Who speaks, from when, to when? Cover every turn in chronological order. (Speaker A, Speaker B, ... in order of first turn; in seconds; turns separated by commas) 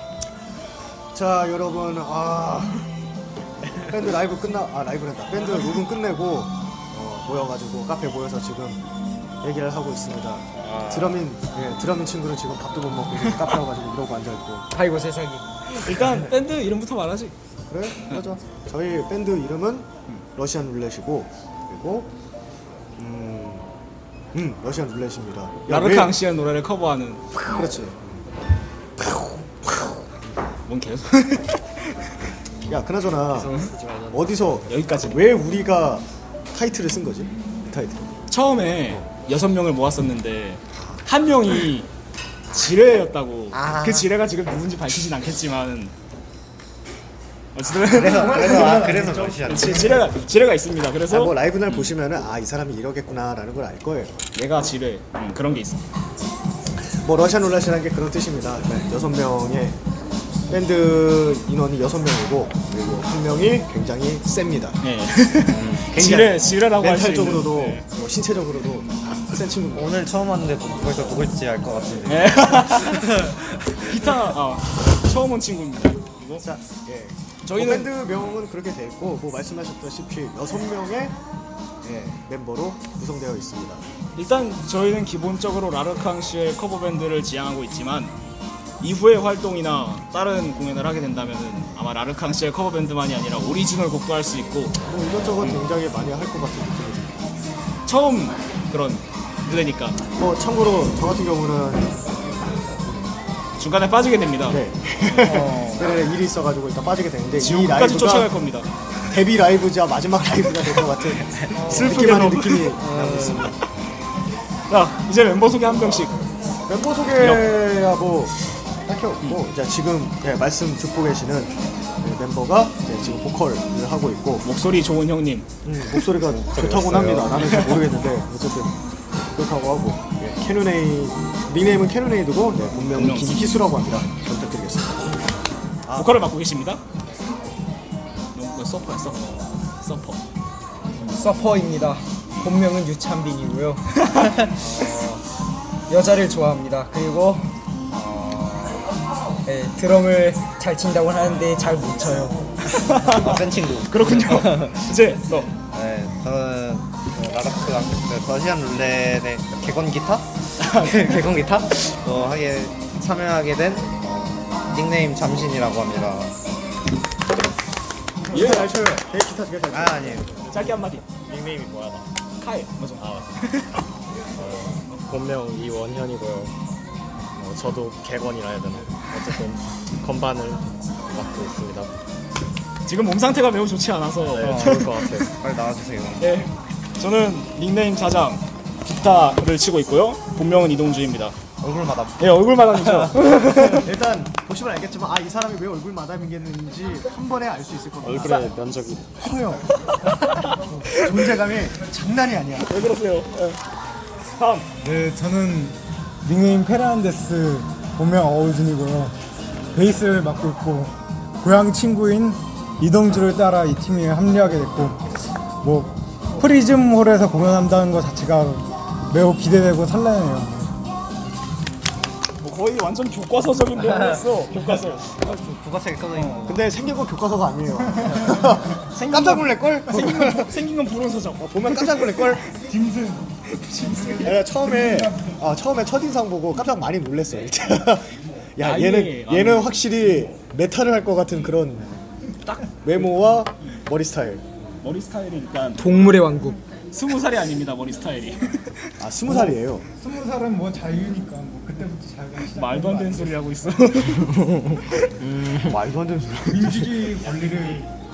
Speaker A: 1.1-2.8, Speaker A: 3.8-8.8, Speaker A: 9.4-14.7, Speaker B: 10.6-11.2, Speaker C: 14.7-15.4, Speaker D: 15.7-17.3, Speaker A: 15.9-16.4, Speaker A: 17.7-22.1, Speaker A: 23.0-23.7, Speaker A: 24.3-26.1, Speaker D: 25.7-27.2, Speaker A: 27.3-28.2, Speaker A: 29.1-29.9, Speaker D: 30.7-32.1, Speaker A: 32.7-33.6, Speaker E: 33.2-34.6, Speaker A: 34.1-38.1, Speaker D: 34.6-35.2, Speaker D: 38.3-41.9, Speaker D: 42.5-45.9, Speaker B: 43.5-44.1, Speaker D: 47.5-48.9, Speaker B: 47.9-50.0, Speaker A: 47.9-48.9, Speaker F: 48.0-50.1, Speaker D: 49.5-51.9, Speaker A: 51.1-54.1, Speaker D: 54.3-55.8, Speaker A: 56.8-59.8, Speaker A: 60.5-64.8, Speaker D: 64.8-67.8, Speaker B: 65.5-65.9, Speaker A: 65.9-69.9, Speaker B: 69.7-73.8, Speaker D: 72.1-73.2, Speaker D: 73.8-76.4, Speaker A: 76.4-81.1, Speaker D: 77.5-77.9, Speaker A: 81.8-83.8, Speaker D: 84.1-88.1, Speaker D: 88.8-94.8, Speaker A: 94.9-97.2, Speaker D: 97.8-100.0, Speaker A: 100.2-102.0, Speaker D: 103.6-105.4, Speaker A: 104.5-108.3, Speaker B: 105.2-105.9, Speaker D: 107.4-108.7, Speaker A: 109.1-113.6, Speaker D: 111.2-112.8, Speaker B: 112.8-113.5, Speaker D: 114.7-116.2, Speaker A: 116.7-118.3, Speaker D: 117.2-117.5, Speaker A: 118.8-124.5, Speaker D: 124.4-125.5, Speaker A: 125.6-128.8, Speaker B: 126.1-127.4, Speaker D: 127.3-127.9, Speaker A: 129.3-135.0, Speaker D: 132.9-133.4, Speaker A: 135.8-136.2, Speaker D: 135.9-136.8, Speaker D: 138.3-140.2, Speaker C: 141.1-144.5, Speaker D: 142.3-142.6, Speaker D: 144.0-144.4, Speaker B: 144.6-145.2, Speaker C: 145.9-147.5, Speaker B: 147.9-148.9, Speaker C: 149.4-152.4, Speaker D: 152.6-155.5, Speaker B: 152.9-155.0, Speaker B: 155.6-166.3, Speaker D: 160.6-161.3, Speaker A: 168.3-170.7, Speaker D: 168.3-168.8, Speaker B: 169.7-170.4, Speaker D: 170.5-171.1, Speaker E: 171.1-172.1, Speaker D: 172.4-173.8, Speaker E: 173.0-173.4, Speaker E: 174.3-176.5, Speaker E: 177.3-181.9, Speaker D: 182.8-185.1, Speaker E: 184.3-185.3, Speaker B: 184.4-186.2, Speaker D: 186.2-191.3, Speaker B: 191.6-193.2, Speaker D: 192.2-193.9, Speaker A: 193.8-198.5, Speaker E: 198.0-199.3, Speaker A: 199.2-199.6, Speaker D: 199.9-200.9, Speaker A: 200.9-202.7, Speaker D: 202.6-203.6, Speaker D: 204.3-204.7, Speaker F: 204.8-209.1, Speaker F: 209.7-215.0, Speaker F: 215.6-220.8, Speaker D: 222.4-225.2, Speaker B: 223.9-226.7, Speaker D: 226.1-226.4, Speaker A: 226.4-230.6, Speaker D: 228.9-232.1, Speaker A: 231.4-232.5, Speaker F: 232.5-235.3, Speaker D: 233.7-234.3, Speaker A: 234.2-241.9, Speaker D: 238.6-239.7, Speaker D: 242.4-242.8, Speaker A: 242.8-244.4, Speaker D: 244.8-245.9, Speaker C: 245.8-246.6, Speaker D: 246.9-248.9, Speaker A: 249.0-249.8, Speaker F: 250.0-253.4, Speaker D: 252.4-255.2, Speaker C: 254.2-254.8, Speaker A: 255.6-257.0, Speaker F: 256.5-257.9